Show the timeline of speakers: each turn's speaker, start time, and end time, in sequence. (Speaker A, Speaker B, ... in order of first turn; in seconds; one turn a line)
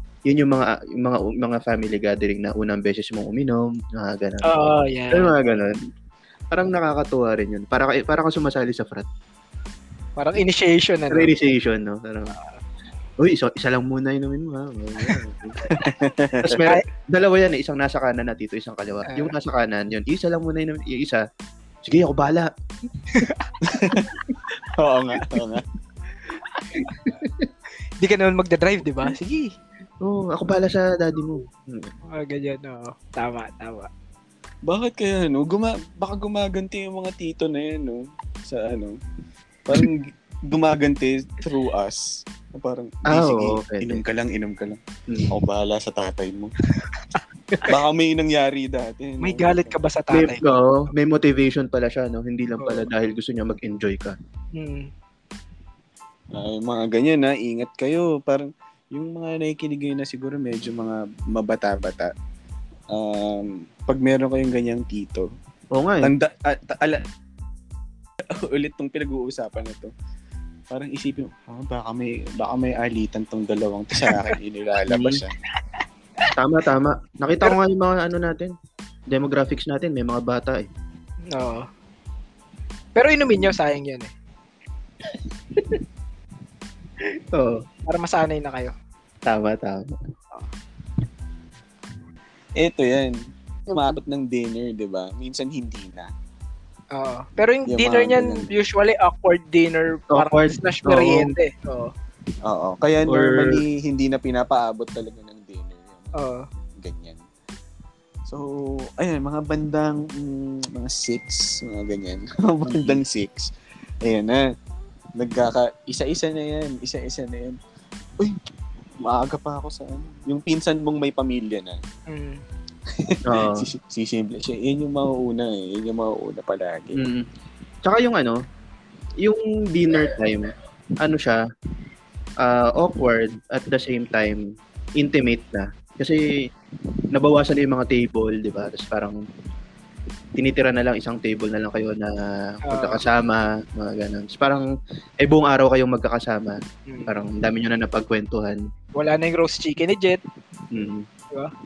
Speaker A: 0.3-4.5
Speaker B: 4.4-5.3
Speaker A: 5.1-5.8
Speaker A: 6.5-9.1
Speaker B: 10.2-11.3
Speaker A: 11.1-12.3
Speaker A: 13.2-15.6
Speaker C: 15.7-16.6
Speaker A: 16.4-21.2
Speaker B: 19.1-19.3
Speaker A: 21.8-22.5
Speaker B: 23.1-23.5
Speaker C: 23.6-24.1
Speaker C: 24.6-25.6
Speaker B: 26.6-26.9
Speaker A: 26.8-27.5
Speaker B: 28.0-29.5
Speaker A: 30.0-31.9
Speaker B: 32.1-33.9
Speaker C: 34.7-39.0
Speaker C: 39.6-44.8
Speaker A: 43.1-44.0
Speaker A: 45.1-45.3
Speaker C: 45.3-46.5
Speaker B: 46.8-47.2
Speaker C: 47.6-49.8
Speaker B: 49.2-50.6
Speaker A: 50.1-54.2
Speaker B: 52.6-52.9
Speaker B: 54.5-54.9
Speaker C: 56.3-62.1
Speaker C: 62.9-65.3
Speaker A: 65.7-66.1
Speaker C: 66.0-67.0
Speaker C: 68.2-69.9
Speaker C: 70.7-75.3
Speaker A: 74.9-75.2
Speaker A: 76.3-78.5
Speaker A: 79.1-80.7
Speaker B: 81.3-81.7
Speaker B: 82.9-84.1
Speaker A: 85.5-85.8
Speaker A: 87.3-87.6
Speaker B: 87.8-88.7
Speaker A: 89.3-90.0
Speaker C: 92.6-93.2
Speaker C: 93.7-96.1
Speaker B: 96.9-101.9
Speaker C: 97.7-98.5
Speaker A: 100.1-101.3
Speaker C: 102.4-106.1
Speaker A: 103.1-103.6
Speaker B: 106.1-106.4
Speaker C: 106.8-107.2
Speaker C: 108.3-113.5
Speaker A: 112.7-113.0
Speaker C: 114.0-114.5
Speaker C: 115.2-117.6
Speaker C: 119.0-121.8
Speaker B: 122.1-122.4
Speaker C: 122.9-127.0
Speaker A: 123.3-123.7
Speaker A: 127.0-127.2
Speaker A: 127.8-128.4
Speaker A: 129.2-131.4
Speaker A: 132.4-134.4
Speaker A: 135.0-136.2
Speaker A: 137.1-139.2
Speaker A: 140.4-144.7
Speaker B: 142.7-143.0
Speaker A: 145.2-148.6
Speaker B: 146.9-147.1
Speaker B: 148.9-150.2
Speaker A: 150.7-151.0